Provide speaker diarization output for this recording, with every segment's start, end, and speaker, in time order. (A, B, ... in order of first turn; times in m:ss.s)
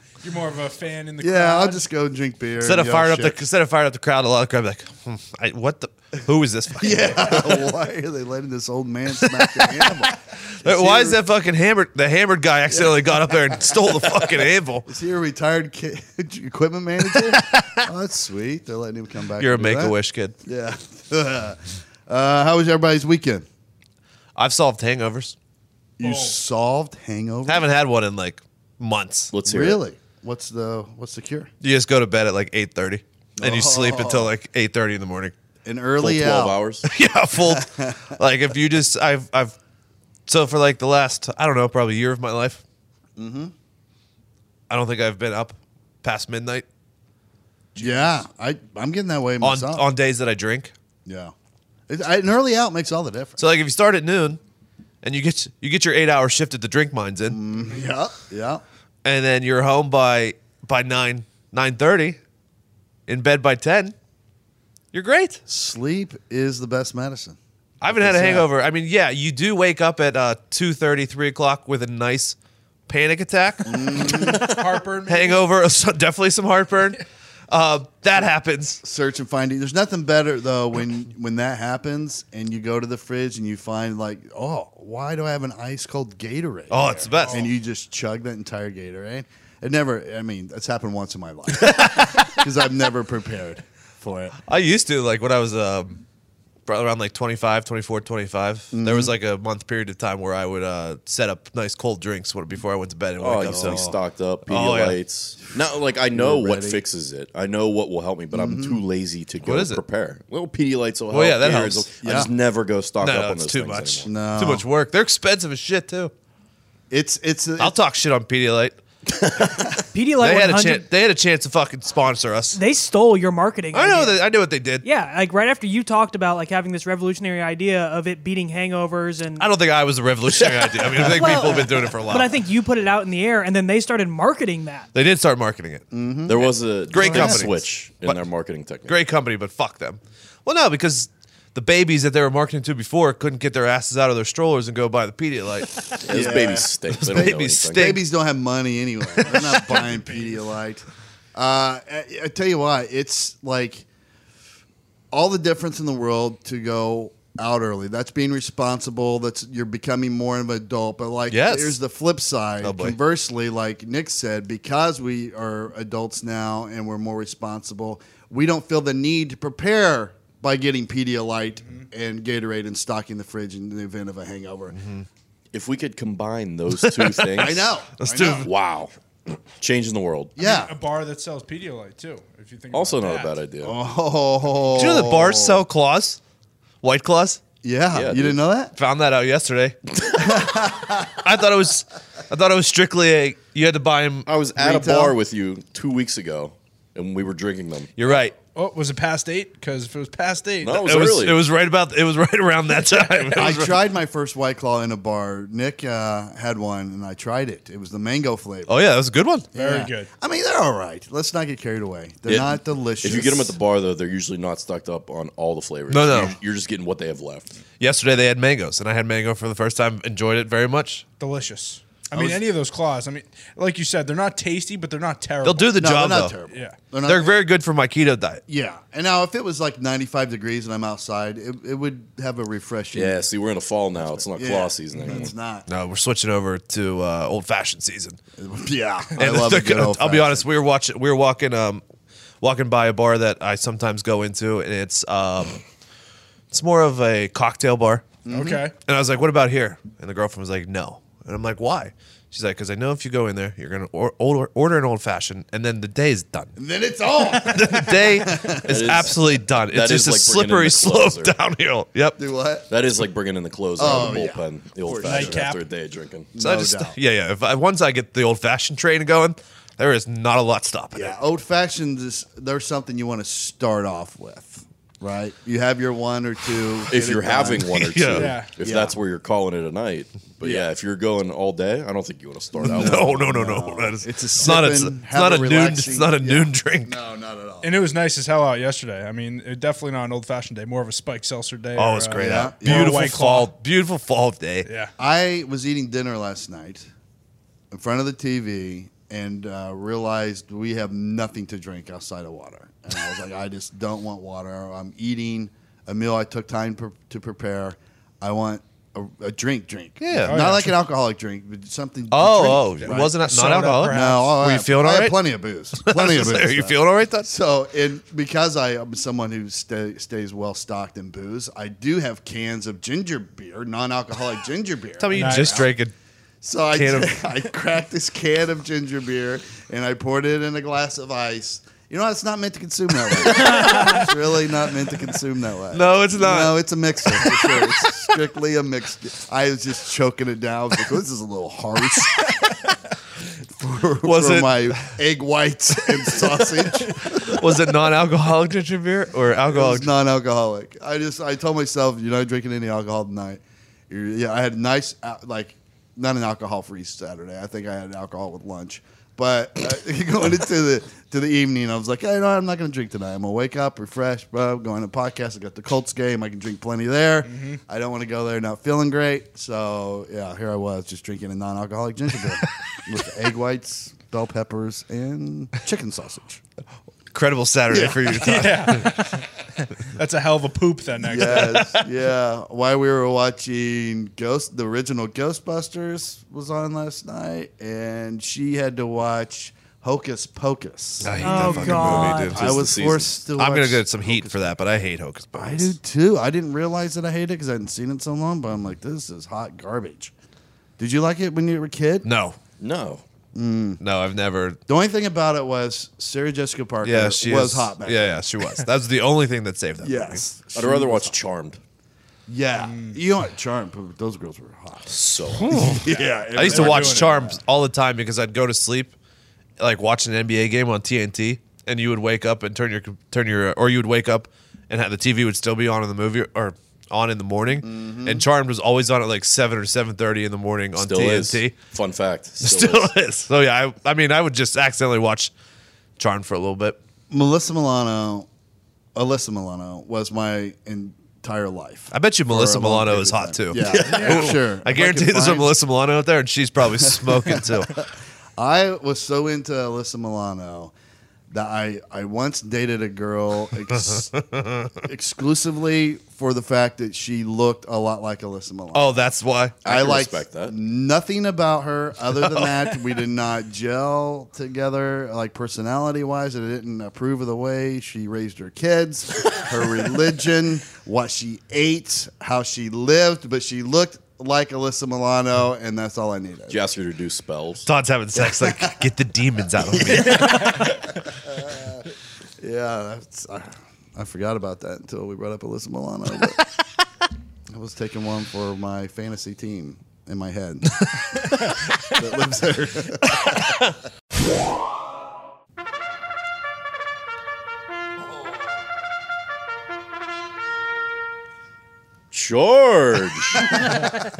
0:00.2-0:01.8 A
0:01.2-0:03.4 B
0:02.6-0:07.7 C
0:06.8-0:11.2 B
0:09.1-0:14.9 C
0:14.8-0:23.4 B
0:17.0-0:17.9 C
0:19.4-0:20.4 C
0:24.4-0:25.3 C
0:26.0-0:27.7 B
0:26.0-0:26.4 A
0:27.5-0:29.3 C
0:29.3-0:29.8 D
0:29.4-0:31.5 B
0:31.6-0:35.3 C
0:33.4-0:34.3 B
0:35.6-0:36.6 B
0:36.0-0:36.9 D
0:36.8-0:39.6 C
0:37.4-0:38.1 B
0:40.3-0:42.6 C
0:43.2-0:43.5 B
0:44.7-0:46.6 C
0:47.7-0:48.2 A
0:47.8-0:49.9 B
0:49.4-0:50.7 C
0:51.0-0:51.3 B
0:51.9-0:53.4 B
0:53.4-0:54.4 C
0:55.0-0:57.4 C
0:57.3-0:58.6 B
0:59.0-1:02.2 C
1:03.1-1:03.9 C
1:04.9-1:05.4 C
1:05.5-1:08.5 B
1:07.8-1:12.4 C
1:12.9-1:18.8 C
1:13.6-1:14.5 B
1:14.0-1:15.4 A
1:18.8-1:34.4 B
1:26.7-1:27.5 C
1:27.1-1:27.5 A
1:31.6-1:32.4 C
1:34.4-1:36.0 C
1:36.6-1:43.8 C
1:38.7-1:39.1 B
1:43.2-1:54.1 D
1:43.4-1:44.0 B
1:44.5-1:45.0 C
1:46.1-1:46.8 B
1:48.3-1:48.8 B
1:49.4-1:49.8 C
1:51.1-1:51.9 C
1:52.0-1:52.3 B
1:53.0-1:56.1 C
1:54.0-1:54.6 B
1:56.9-1:57.8 B
1:57.6-1:58.8 C
1:59.4-1:59.8 B
1:59.9-2:00.8 E
2:00.1-2:02.6 C
2:02.5-2:04.2 E
2:03.7-2:04.8 C
2:04.8-2:09.5 E
2:09.4-2:12.4 C
2:10.3-2:11.4 D
2:11.0-2:14.9 E
2:14.9-2:18.2 C
2:15.9-2:17.5 B
2:16.2-2:19.0 D
2:18.9-2:28.0 C
2:26.0-2:28.0 D
2:26.1-2:27.2 B
2:27.7-2:33.8 B
2:29.2-2:29.5 C
2:29.4-2:30.4 A
2:35.1-2:54.8 B
2:41.3-2:41.8 C
2:42.6-2:43.0 C
2:54.7-2:55.1 C
2:55.5-2:57.7 D
2:56.8-2:58.5 C
2:57.4-2:58.5 B
2:58.4-3:00.3 D
3:00.4-3:00.7 B
3:00.4-3:03.3 A
3:02.7-3:03.7 D
3:03.6-3:05.6 B
3:04.7-3:06.2 C
3:06.8-3:07.4 C
3:07.6-3:08.7 B
3:07.9-3:08.4 D
3:08.7-3:09.8 C
3:10.2-3:11.1 B
3:10.5-3:14.3 C
3:14.2-3:17.9 D
3:14.6-3:15.2 B
3:18.0-3:18.4 C
3:18.4-3:20.9 A
3:20.6-3:21.4 D
3:20.8-3:23.8 C
3:23.0-3:23.5 A
3:23.4-3:28.8 B
3:28.7-3:29.5 C
3:29.5-3:30.1 A
3:29.5-3:33.6 B
3:32.3-3:37.6 D
3:35.9-3:36.4 C
3:37.8-3:41.1 C
3:41.2-3:45.8 A
3:42.1-3:42.4 B
3:45.4-3:46.3 C
3:45.8-3:47.3 B
3:46.5-3:46.8 A
3:47.0-3:48.4 C
3:48.5-3:53.2 B
3:52.9-3:55.3 D
3:54.1-3:55.6 B
3:55.7-3:58.2 C
3:58.4-4:00.5 B
3:59.2-4:01.8 C
4:02.4-4:05.6 C
4:06.5-4:08.2 C
4:08.2-4:08.7 B
4:08.3-4:08.7 A
4:08.8-4:16.5 C
4:16.6-4:18.7 B
4:17.4-4:22.2 C
4:18.7-4:21.3 D
4:22.2-4:22.7 B
4:22.7-4:26.3 D
4:23.8-4:25.4 B
4:25.0-4:25.6 A
4:26.3-4:27.0 B
4:26.4-4:31.1 C
4:30.9-4:37.7 B
4:36.9-4:43.2 D
4:37.7-4:38.3 C
4:38.1-4:38.5 A
4:38.6-4:38.9 B
4:40.4-4:40.7 B
4:42.6-4:47.8 B
4:42.6-4:46.9 C
4:47.6-4:53.5 A
4:51.8-4:54.7 C
4:52.2-4:53.0 B
4:54.6-4:54.9 A
4:55.0-4:56.9 B
4:57.7-5:13.2 B
5:10.0-5:10.4 C
5:10.2-5:10.8 A
5:12.1-5:17.3 C
5:12.8-5:14.4 A
5:13.8-5:25.7 B
5:25.0-5:25.9 C
5:25.1-5:25.6 A
5:26.4-5:42.6 B
5:26.7-5:27.2 C
5:33.2-5:34.1 C
5:33.6-5:34.0 A
5:35.7-5:37.9 C
5:43.4-5:47.4 B
5:44.0-5:44.9 C
5:47.0-5:49.9 C
5:49.5-6:16.4 B
6:07.2-6:07.6 A
6:17.1-6:19.0 C
6:17.7-6:18.3 B
6:18.2-6:21.8 A
6:21.1-6:34.5 B
6:31.0-6:35.8 C
6:31.2-6:32.4 E
6:31.2-6:33.2 D
6:35.3-6:40.1 B
6:40.8-6:42.1 B
6:42.0-6:42.4 C
6:42.6-6:43.0 D
6:43.3-6:43.8 B
6:43.8-6:44.6 C
6:44.7-6:48.2 B
6:46.8-6:50.2 C
6:49.8-6:51.2 B
6:50.5-6:51.6 D
6:52.3-6:57.4 B
6:52.6-6:53.0 A
6:54.9-6:55.7 D
6:55.4-6:58.9 C
6:56.4-6:57.2 A
6:59.6-7:11.5 C
7:07.6-7:08.2 B
7:10.8-7:13.0 D
7:12.4-7:15.3 C
7:16.0-7:16.8 C
7:17.1-7:18.3 B
7:18.9-7:25.5 B
7:21.9-7:27.7 C
7:23.7-7:24.4 A
7:26.8-7:30.7 B
7:31.3-7:34.1 B
7:33.7-7:34.7 C
7:34.8-7:39.0 B
7:38.7-7:39.6 C
7:39.6-7:40.5 D
7:39.6-7:56.6 B
7:42.1-7:42.9 C
7:56.5-7:57.7 D
7:57.6-8:00.7 C
7:58.4-7:58.8 B
7:59.9-8:00.7 A
8:00.0-8:00.5 B
8:01.3-8:01.8 B
8:02.4-8:06.4 B
8:07.5-8:10.8 B
8:11.8-8:13.5 B
8:22.1-8:23.8 D